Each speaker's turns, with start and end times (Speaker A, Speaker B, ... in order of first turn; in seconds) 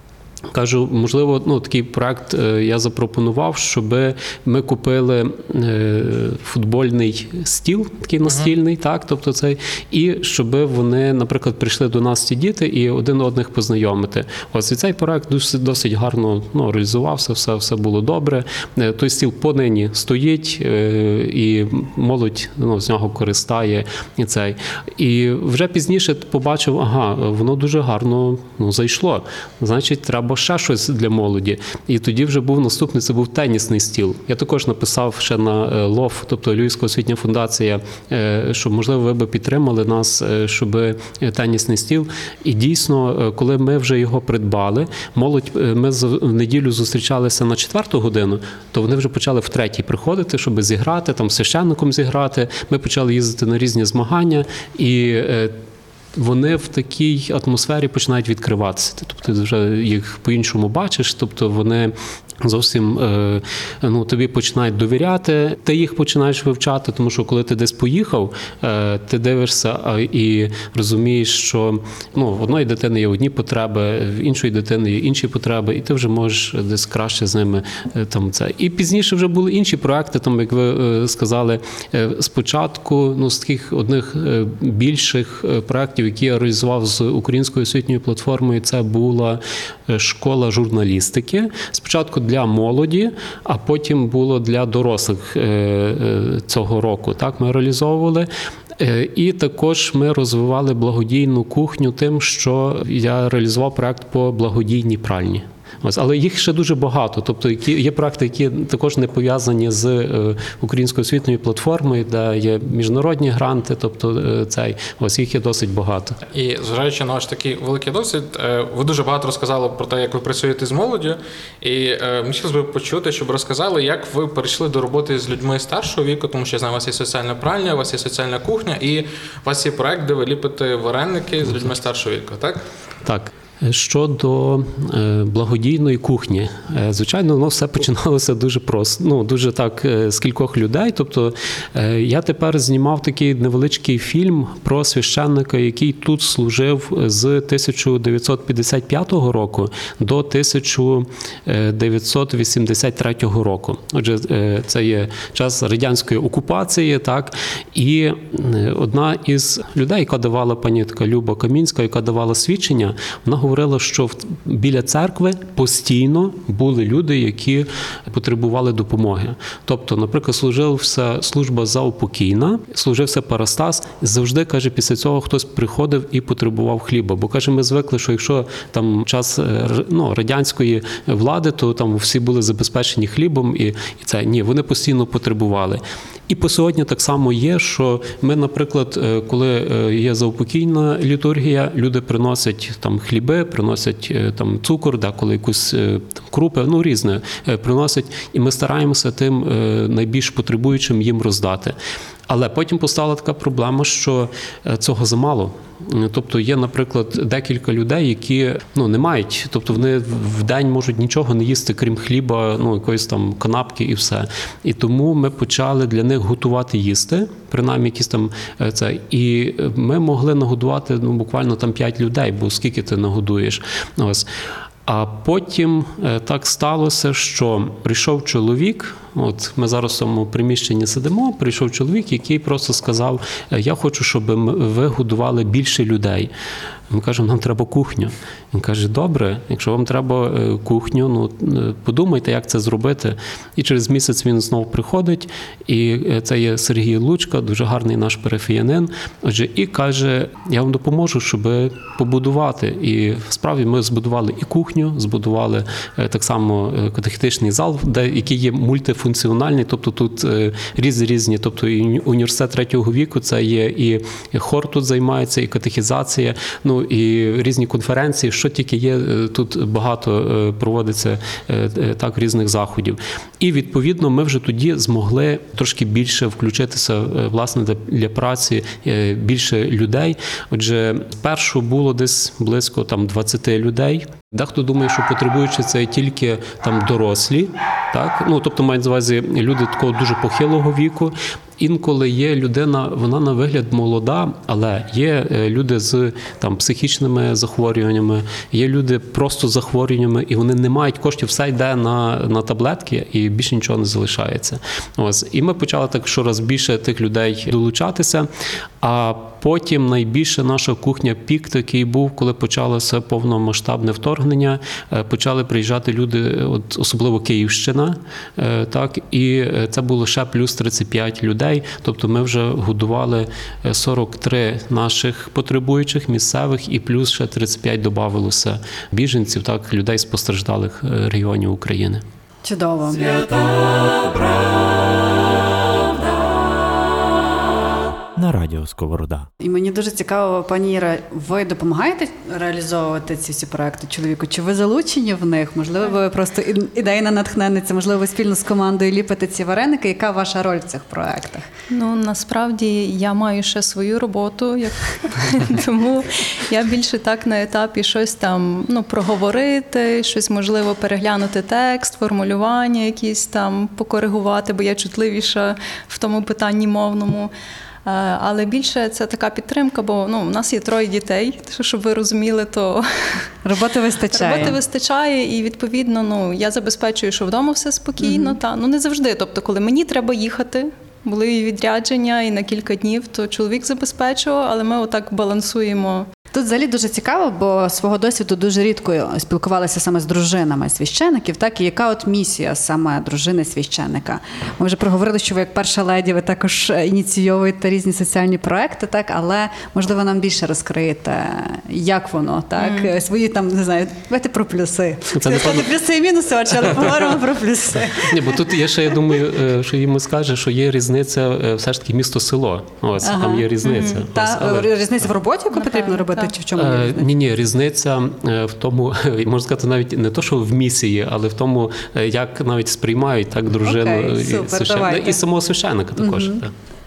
Speaker A: 0.5-55.5, 56.1-116.2, 133.1-201.8, 202.3-224.3, 224.9-236.3, 236.9-308.3, 308.8-332.0, 405.1-405.7, 408.1-415.1, 416.6-426.5
Speaker B: 116.3-132.7
Speaker C: 332.4-333.0, 339.4-351.5, 373.4-374.6, 378.0-378.4, 386.3-408.2, 413.0-417.1, 423.6-425.2, 426.0-426.4
Speaker D: 333.0-336.5, 338.1-339.3
Speaker E: 351.7-367.3, 367.9-373.2, 374.1-386.1, 402.6-402.9, 413.6-414.0, 415.5-416.3